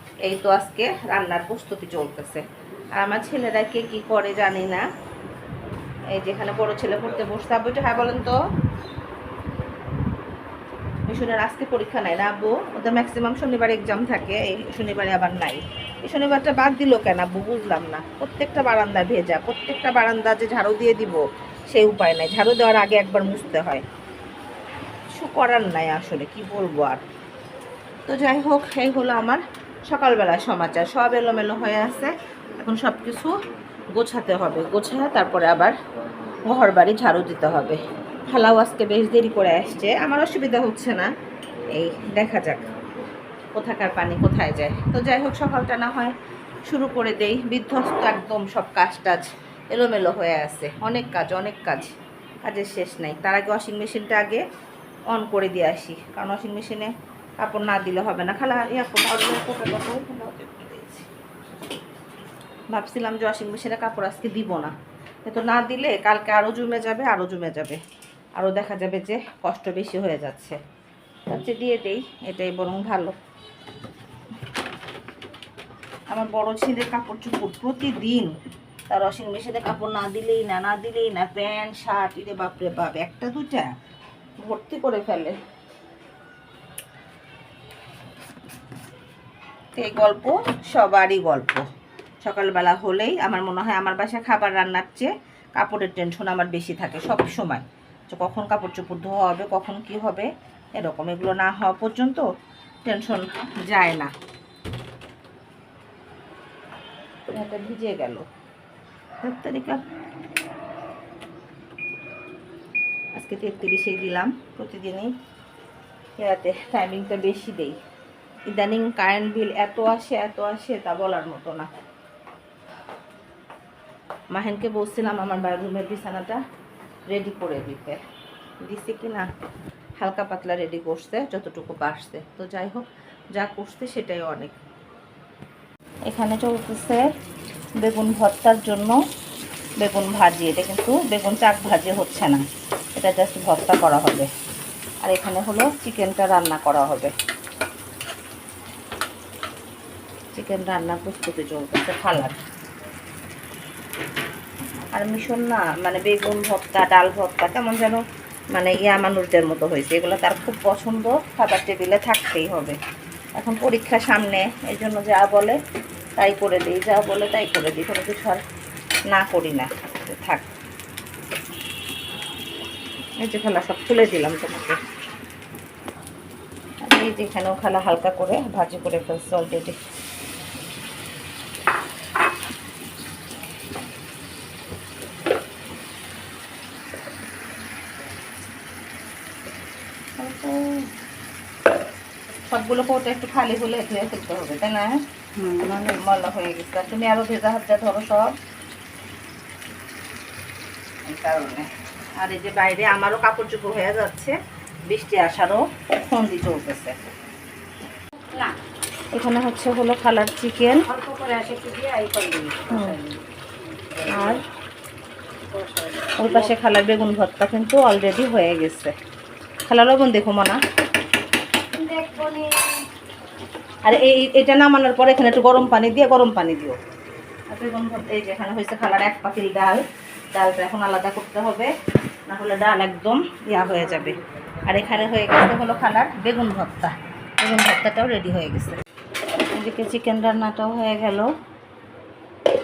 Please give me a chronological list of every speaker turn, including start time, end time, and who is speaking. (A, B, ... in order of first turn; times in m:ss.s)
0:00.2-0:02.4 A
0:03.0-0:04.8 A
0:06.1-0:08.4 A
0:11.1-0:23.8 A
0:25.1-0:27.0 A
0:28.1-0:33.3 A
0:33.9-0:35.8 A
0:36.4-0:41.1 A
0:41.7-0:42.7 A
0:43.5-0:46.1 A
0:46.7-0:54.4 A
0:55.1-1:01.1 A
1:02.7-1:04.7 A
1:05.2-1:07.8 A
1:08.4-1:10.6 A
1:11.3-1:13.2 A
1:16.1-1:18.3 A
1:18.9-1:23.7 A
1:24.4-1:25.4 A
1:29.7-1:31.6 A
1:32.2-1:42.2 A
1:42.8-1:44.1 A
1:47.3-1:48.2 A
1:49.2-1:49.8 A
1:53.2-1:55.1 A
1:56.2-1:57.8 A
1:58.5-2:01.7 A
2:04.3-2:06.4 A
2:07.1-2:08.0 A
2:08.6-2:09.2 A
2:10.0-2:12.8 A
2:13.3-2:14.6 A
2:16.1-2:17.1 A
2:17.8-2:19.0 A
2:19.8-2:22.4 A
2:23.0-2:24.3 A
2:25.0-2:27.1 A
2:30.3-2:32.4 A
2:34.9-2:38.0 A
2:38.5-2:42.8 A
2:43.4-2:45.6 A
2:46.2-2:48.4 A
2:49.1-2:50.5 A
2:53.2-2:54.8 A
2:56.8-2:59.8 A
3:10.2-3:10.9 A
3:12.5-3:15.0 A
3:15.4-3:16.0 B
3:15.8-3:18.3 A
3:21.0-3:24.4 A
3:24.9-3:26.9 A
3:28.3-3:28.5 B
3:29.1-3:30.9 A
3:30.8-3:34.4 B
3:32.7-3:33.0 A
3:34.1-3:34.4 A
3:35.5-3:36.5 B
3:36.2-3:38.9 A
3:39.7-3:40.6 A
3:41.7-3:42.8 B
3:43.8-3:46.8 A
3:47.5-3:51.7 A
3:52.3-3:54.2 A
3:54.7-3:58.8 A
3:59.5-4:01.3 A